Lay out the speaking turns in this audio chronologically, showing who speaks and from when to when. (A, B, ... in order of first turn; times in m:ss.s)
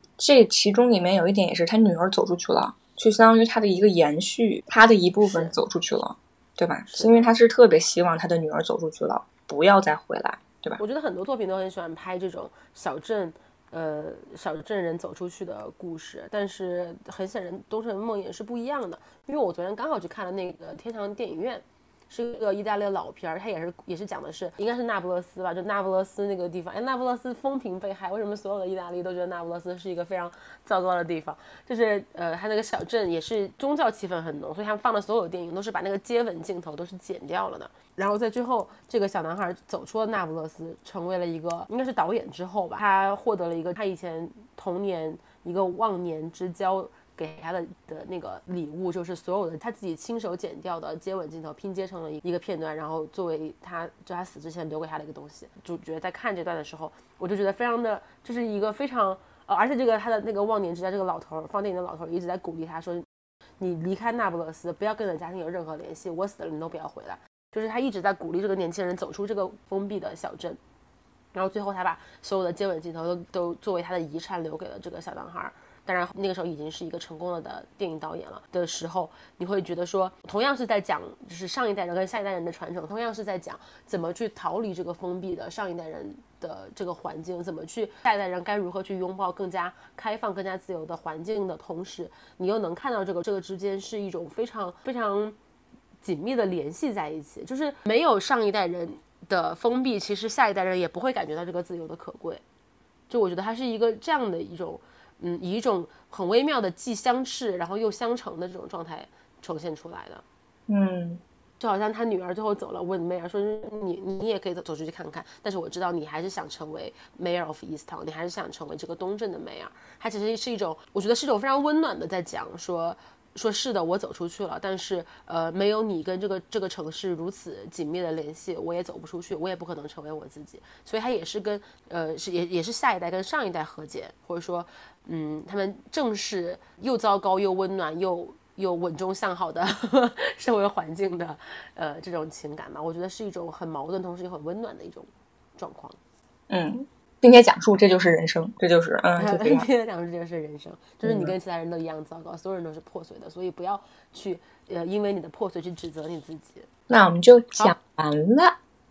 0:00.2-0:10.8 A
0:05.2-0:05.6 B
0:06.9-0:07.3 B
0:10.8-1:03.0 B
1:03.6-1:10.6 B
1:11.3-1:35.4 B
1:36.0-1:42.4 B
1:43.1-1:50.2 B
1:50.7-1:51.2 A
1:51.6-2:26.0 B
2:26.5-2:29.7 A
2:29.2-2:36.7 B
2:31.0-2:31.3 A
2:36.9-2:38.6 A